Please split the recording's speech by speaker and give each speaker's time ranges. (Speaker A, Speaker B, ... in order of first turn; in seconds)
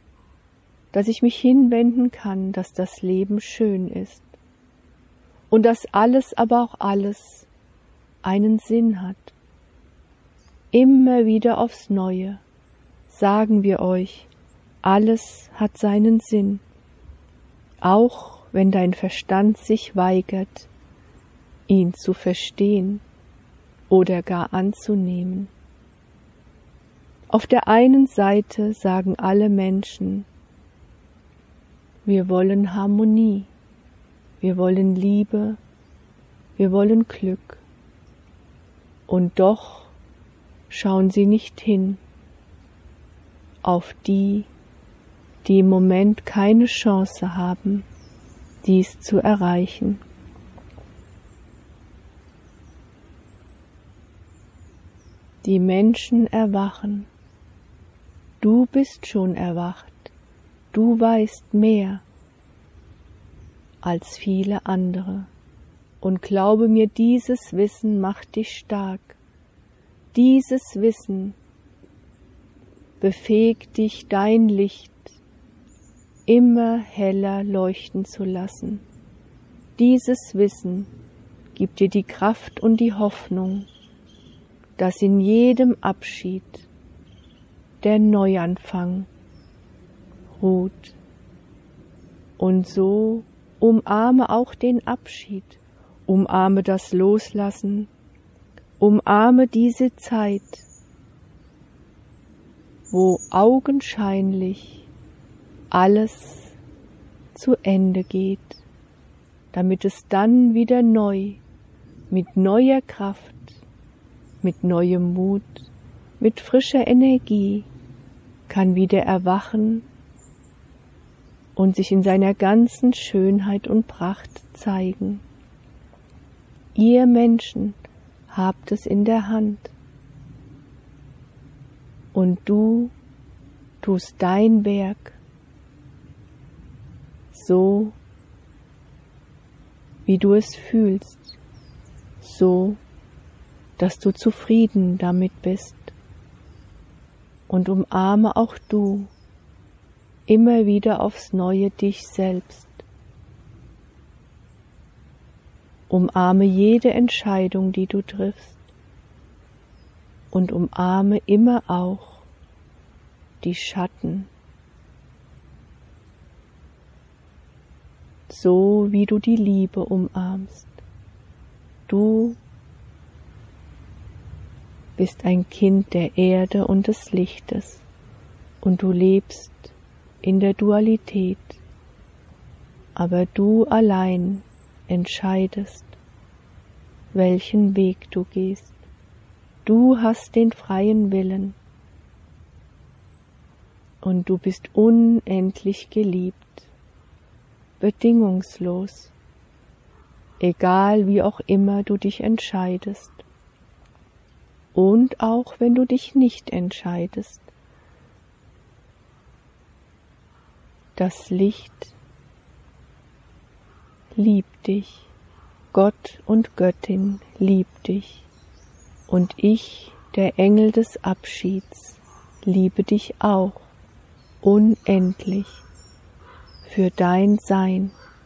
Speaker A: 0.9-4.3, 5.5-7.5, 8.2-9.3, 10.7-12.4, 13.1-14.3, 14.8-16.6, 17.8-20.7, 21.7-23.0, 23.9-25.5, 27.3-30.3, 32.0-33.5, 34.4-35.6, 36.6-37.6, 39.1-39.9, 40.7-42.0, 43.6-44.5, 45.4-47.9, 48.6-50.0, 55.4-57.1, 58.4-60.1, 60.7-62.0, 63.8-65.3, 66.0-69.2, 70.1-71.3, 73.0-75.2, 76.2-78.8, 79.8-80.9, 81.5-83.7, 84.8-86.7, 87.8-89.1, 90.3-91.0, 92.4-97.9, 98.8-100.7, 102.9-104.9, 105.7-106.5, 107.3-108.6, 109.5-111.4, 112.1-113.6, 114.4-117.7, 118.5-119.8, 121.5-125.2, 126.7-127.8, 128.3-129.7, 132.1-132.9, 133.8-135.2, 137.3-138.0, 140.1-141.4, 142.2-142.8, 143.8-145.9, 147.5-149.1, 150.3-152.8, 155.9-158.7, 160.3-162.2, 163.4-164.3, 168.3-170.8, 171.9-172.4, 175.0-177.8, 178.6-181.6, 182.9-185.9, 187.1-188.8, 189.6-191.6, 194.0-196.7, 197.8-199.1, 200.4-203.2, 204.7-207.5, 210.9-211.9, 214.1-215.1, 215.7-218.2, 219.1-223.7, 224.4-225.6, 226.6-227.9